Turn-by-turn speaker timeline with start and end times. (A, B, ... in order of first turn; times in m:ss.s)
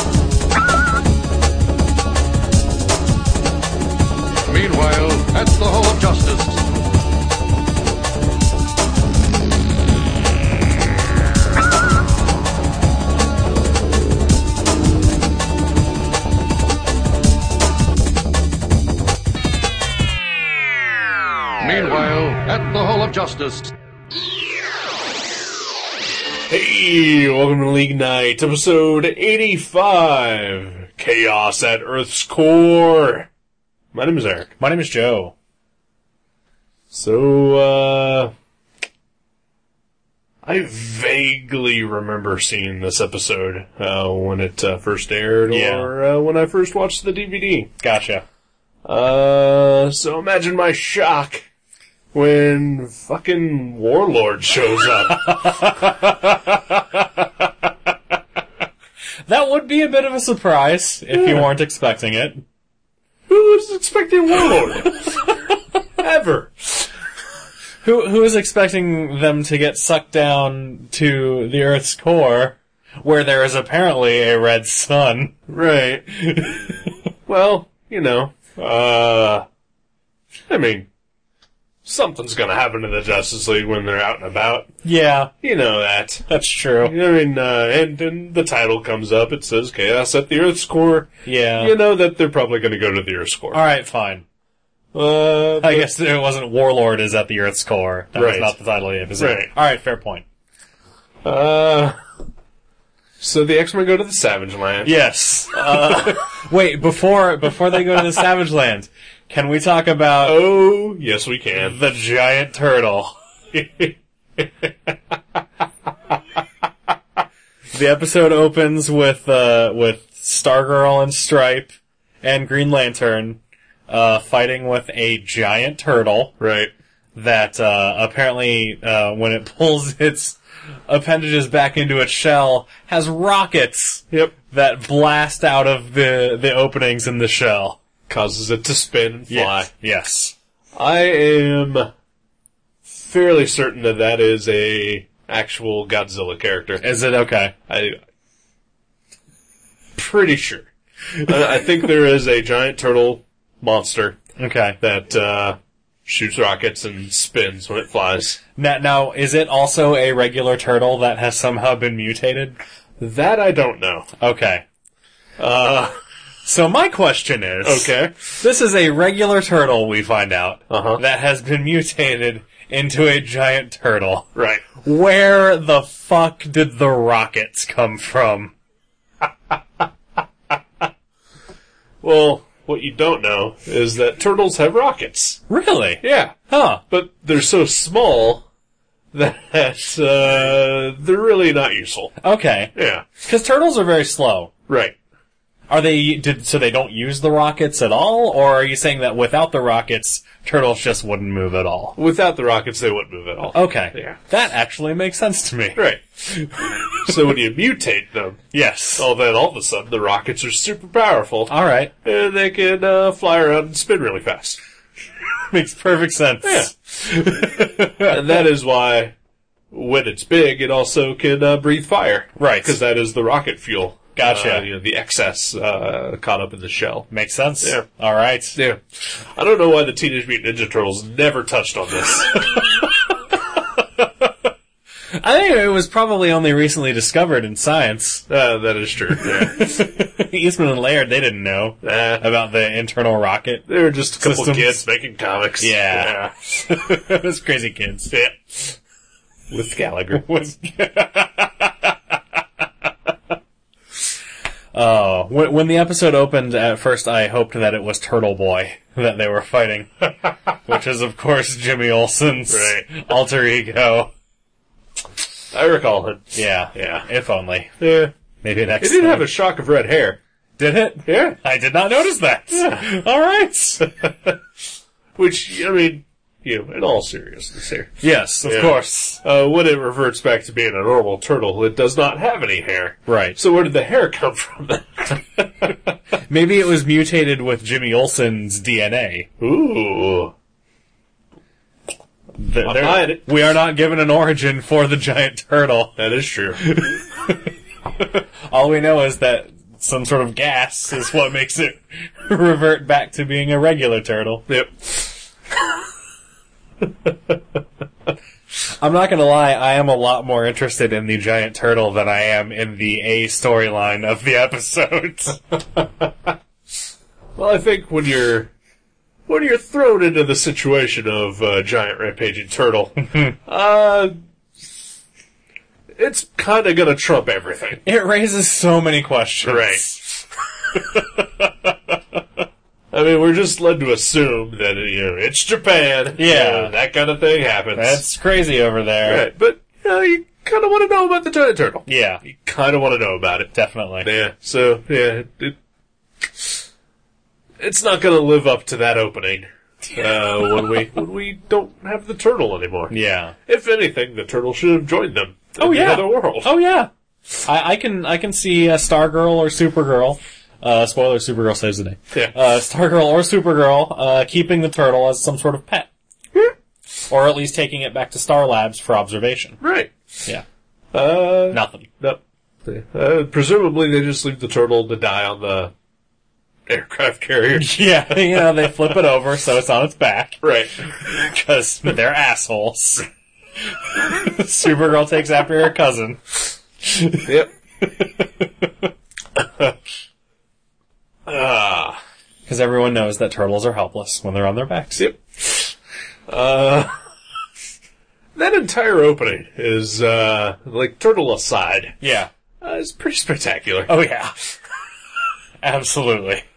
0:04.5-0:06.6 A
0:21.6-0:23.7 A
0:26.5-0:33.3 B
0:33.9-0:34.5 B
0:34.6-0:35.3 C
0:36.9-0:38.3 B
0:40.4-0:47.7 B
0:45.5-0:45.9 C
0:47.8-0:48.2 C
0:48.8-0:51.4 B
0:52.1-0:55.7 B
0:55.2-0:57.3 C
0:59.3-1:02.4 C
1:03.3-1:05.1 B
1:06.0-1:06.9 B
1:07.8-1:15.4 C
1:15.5-1:19.5 B
1:20.5-1:20.9 B
1:21.8-1:24.7 B
1:24.8-1:25.3 C
1:25.4-1:26.3 B
1:26.3-1:27.0 C
1:26.8-1:33.6 B
1:31.2-1:31.8 C
1:33.5-1:34.2 C
1:34.9-1:35.9 B
1:35.6-1:40.2 C
1:38.2-1:38.6 B
1:39.2-1:39.5 B
1:41.2-1:42.0 B
1:43.2-1:44.9 B
1:44.8-1:50.4 C
1:45.5-1:46.2 B
1:50.2-1:51.8 B
1:51.6-1:53.2 C
1:53.5-1:55.0 B
1:57.7-2:06.4 C
2:06.4-2:06.7 B
2:07.2-2:17.8 C
2:18.1-2:19.7 B
2:19.3-2:20.4 C
2:20.7-2:21.9 B
2:22.9-2:26.8 B
2:26.8-2:27.6 C
2:27.7-2:28.0 B
2:30.0-2:34.2 B
2:34.4-2:34.8 C
2:34.8-2:38.4 B
2:38.6-2:42.6 C
2:43.0-2:44.1 B
2:44.2-2:44.6 C
2:45.4-2:46.0 B
2:46.4-2:58.5 C
2:47.6-2:48.3 B
2:50.7-2:51.0 B
2:54.4-2:54.7 B
3:02.0-3:05.4 B
3:05.5-3:06.8 C
3:06.0-3:06.4 B
3:06.9-3:08.5 B
3:09.1-3:12.1 B
3:12.2-3:14.5 C
3:12.8-3:13.1 B
3:14.7-3:15.0 B
3:15.7-3:22.0 C
3:22.0-3:24.2 B
3:23.5-3:27.2 C
3:25.8-3:26.0 B
3:27.1-3:28.4 B
3:28.5-3:29.1 C
3:29.0-3:34.6 B
3:31.5-3:31.9 C
3:35.5-3:38.2 C
3:36.4-3:36.7 B
3:38.0-3:39.2 B
3:39.7-3:47.1 B
3:42.4-3:42.8 C
3:44.2-3:44.7 C
3:47.1-3:48.6 C
3:48.6-3:48.8 B
3:49.3-3:52.4 B
3:52.5-3:52.9 C
3:54.0-3:54.3 C
3:55.2-3:58.3 C
3:58.3-3:59.8 B
3:59.2-4:03.7 C
4:01.8-4:02.3 B
4:03.7-4:06.3 B
4:04.2-4:04.8 C
4:05.6-4:08.1 C
4:08.1-4:08.8 B
4:09.5-4:10.5 B
4:10.1-4:12.0 C
4:14.7-4:24.1 C
4:22.5-4:22.9 B
4:25.5-4:27.1 B
4:26.4-4:27.8 C
4:27.8-4:28.1 B
4:28.4-4:29.4 C
4:28.8-4:30.2 B
4:30.6-4:33.9 C
4:31.1-4:31.4 B
4:32.5-4:32.8 B
4:33.8-4:34.4 B
4:35.2-4:45.7 B
4:38.0-4:39.2 C
4:43.1-4:43.4 C
4:46.3-4:49.3 C
4:49.4-4:50.3 B
4:52.4-4:56.0 C
4:52.6-4:53.2 B
4:56.0-4:56.6 B
4:56.6-4:57.3 C
4:58.5-5:04.4 C
5:04.5-5:05.1 B
5:06.8-5:07.3 B
5:08.8-5:15.6 C
5:17.4-5:18.5 B
5:19.3-5:24.1 B
5:25.9-5:27.8 B
5:27.8-5:30.0 C
5:29.4-5:30.2 B
5:32.9-5:38.0 B
5:36.2-5:36.7 C
5:37.8-5:39.3 C
5:39.0-5:45.6 B
5:41.9-5:42.2 C
5:43.5-5:44.1 C
5:46.3-5:46.6 B
5:47.6-5:52.9 B
5:52.9-5:53.4 C
5:53.5-5:56.6 B
5:55.6-5:56.9 C
5:57.4-6:05.9 C
6:07.1-6:09.6 C
6:09.6-6:09.9 B
6:10.9-6:15.7 B
6:11.5-6:11.9 C
6:16.7-6:17.8 B
6:17.6-6:23.0 C
6:20.4-6:20.7 B
6:24.0-6:27.2 C
6:27.2-6:27.5 B
6:29.4-6:29.7 B
6:31.3-6:32.0 B
6:32.5-6:35.0 C
6:34.9-6:35.7 B
6:36.3-6:37.0 B
6:38.4-6:42.0 B
6:42.0-6:42.3 C
6:42.6-6:43.9 B
6:43.9-6:44.5 C
6:45.6-6:46.4 C